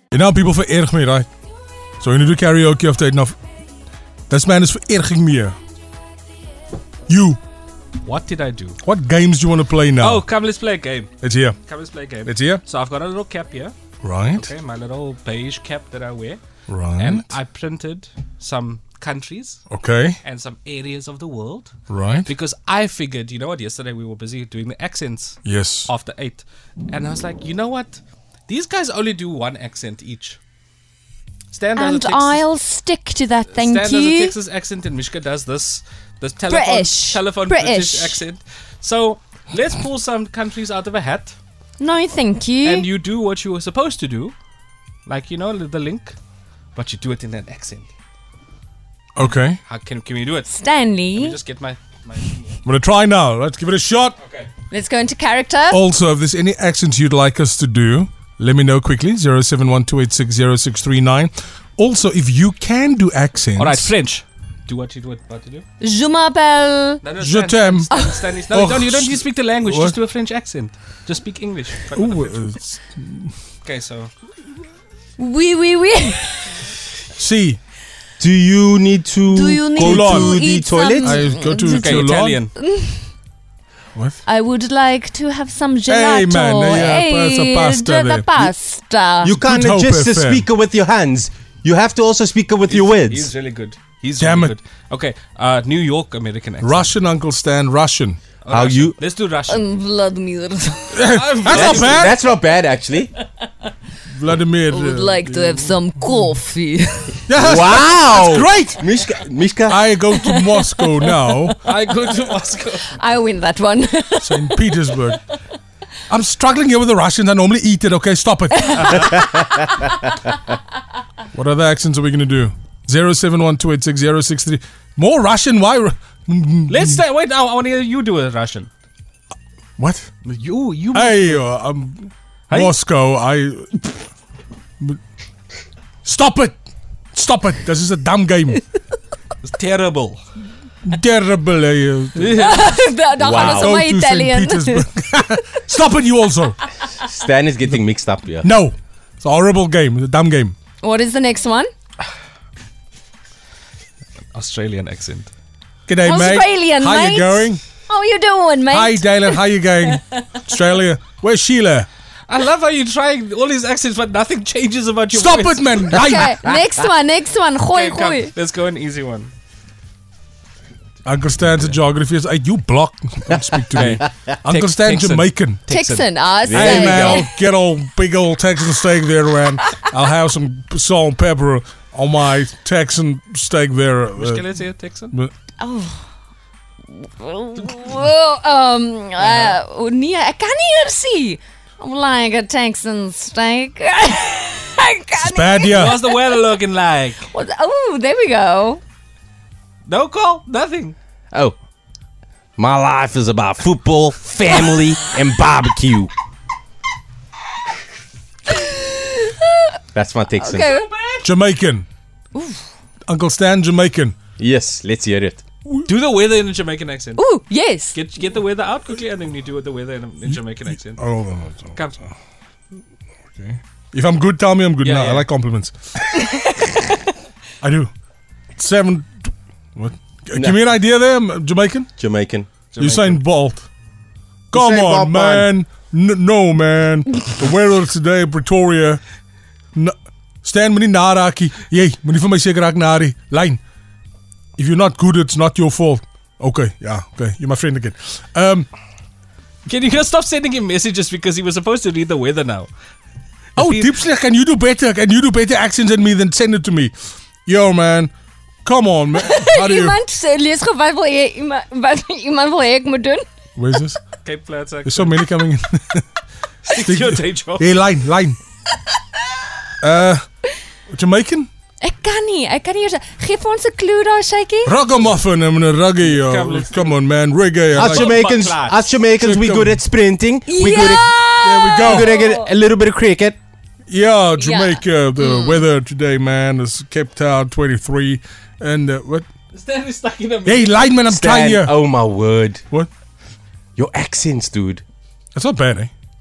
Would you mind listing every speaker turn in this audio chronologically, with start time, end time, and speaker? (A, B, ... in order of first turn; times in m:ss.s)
0:00.1-0:01.3 A
0:02.0-0:03.4 A
0:04.3-0:05.6 A
0:07.1-0:07.4 A
0:08.0-0:08.8 B
0:08.8-0:10.3 A
0:10.0-0:11.1 B
0:11.2-0:11.6 A
0:11.6-0:13.7 B
0:12.2-0:12.6 A
0:14.0-0:14.5 A
0:14.3-0:16.4 B
0:16.7-0:17.3 A
0:17.0-0:19.6 B
0:19.7-0:20.2 A
0:20.2-0:30.4 B
0:21.9-0:22.3 A
0:25.4-0:25.9 A
0:31.5-0:32.4 B
0:31.7-0:34.3 C
0:33.5-0:41.4 B
0:36.5-0:38.2 C
0:41.8-0:42.9 C
0:42.6-0:44.3 B
0:45.0-0:46.2 B
0:46.7-0:47.9 B
0:49.1-0:49.6 A
0:49.2-0:50.5 B
0:50.5-0:51.4 C
0:51.1-0:52.6 B
0:52.6-0:54.2 A
0:54.2-0:54.5 B
0:54.7-0:55.8 C
0:55.7-1:03.9 A
1:03.6-1:05.6 B
1:05.8-1:07.0 C
1:07.0-1:12.6 B
1:07.2-1:07.9 A
1:08.5-1:10.0 A
1:11.9-1:13.3 A
1:13.6-1:14.1 B
1:15.2-1:16.6 C
1:17.2-1:17.6 A
1:18.2-1:21.2 D
1:19.3-1:23.1 C
1:19.7-1:20.4 A
1:21.0-1:22.4 A
1:21.6-1:22.5 B
1:24.2-1:29.3 C
1:25.9-1:28.5 A
1:29.2-1:33.3 D
1:29.4-1:30.5 A
1:32.7-1:36.9 B
1:34.2-1:34.5 A
1:36.6-1:38.2 A
1:38.4-1:39.6 B
1:38.5-1:39.0 D
1:39.5-1:41.0 C
1:40.9-1:42.2 A
1:41.0-1:42.1 B
1:41.5-1:43.1 D
1:44.1-1:45.7 A
1:44.7-1:47.3 C
1:47.3-1:48.9 A
1:47.4-1:49.8 D
1:49.7-1:51.6 A
1:50.2-1:51.6 C
1:51.6-1:53.0 B
1:52.9-1:54.6 C
1:54.2-1:55.2 A
1:56.1-1:59.1 A
1:58.7-1:59.1 C
2:01.3-2:07.0 A
2:06.7-2:08.7 B
2:09.8-2:10.1 A
2:10.2-2:11.4 B
2:10.9-2:14.0 A
2:12.5-2:12.8 B
2:16.0-2:16.6 A
2:17.1-2:18.6 A
2:19.4-2:20.2 B
2:20.8-2:22.4 A
2:22.2-2:22.8 B
2:22.4-2:24.9 C
2:23.2-2:23.8 D
2:23.3-2:26.6 A
2:27.0-2:28.5 D
2:28.4-2:30.5 A
2:30.8-2:31.7 C
2:34.3-2:35.3 B
2:35.9-2:37.6 A
2:36.0-2:39.4 C
2:38.7-2:41.9 A
2:42.3-2:46.0 B
2:45.1-2:46.4 A
2:45.9-2:48.3 C
2:47.7-2:49.3 B
2:51.0-2:55.6 A
2:53.7-2:56.1 B
2:53.8-2:54.1 D
2:55.7-2:57.3 C
2:56.4-2:57.2 D
2:56.5-3:04.4 A
3:04.2-3:05.1 B
3:05.6-3:06.0 C
3:06.9-3:16.3 C
3:09.2-3:09.6 B
3:15.2-3:16.0 A
3:15.7-3:17.2 B
3:17.2-3:18.8 C
3:19.8-3:20.9 B
3:22.6-3:26.1 D
3:28.5-3:29.6 C
3:29.9-3:30.7 D
3:30.4-3:30.9 C
3:30.6-3:31.2 B
3:31.2-3:31.9 A
3:32.3-3:32.6 C
3:33.1-3:34.2 A
3:34.4-3:35.4 D
3:35.8-3:37.2 B
3:37.2-3:37.9 C
3:37.9-3:41.0 B
3:41.0-3:41.9 A
3:43.3-3:46.0 A
3:44.8-3:45.3 B
3:47.6-3:47.9 A
3:48.6-3:51.9 A
3:52.0-3:52.5 D
3:52.7-3:53.2 B
3:52.8-3:53.6 A
3:54.5-3:55.5 D
3:54.5-3:59.0 A
3:59.7-4:03.6 A
4:04.6-4:08.7 A
4:09.6-4:12.7 B
4:13.6-4:13.9 B
4:13.6-4:16.9 A
4:17.4-4:18.1 A
4:18.6-4:20.0 A
4:19.2-4:23.2 C
4:23.6-4:24.0 A
4:24.2-4:25.2 B
4:24.8-4:26.0 A
4:26.6-4:27.7 B
4:26.7-4:28.4 A
4:29.8-4:30.2 A
4:30.9-4:31.5 A
4:31.8-4:34.8 C
4:34.6-4:38.1 A
4:36.0-4:37.0 B
4:37.7-4:41.2 D
4:37.8-4:38.8 B
4:39.2-4:39.8 A
4:40.5-4:42.5 C
4:41.4-4:42.1 A
4:41.8-4:43.4 D
4:43.9-4:49.2 A
4:44.4-4:45.7 C
4:49.5-4:50.9 B
4:50.4-4:51.7 A
4:51.1-4:52.6 D
4:53.8-4:54.8 D
4:55.3-4:55.9 A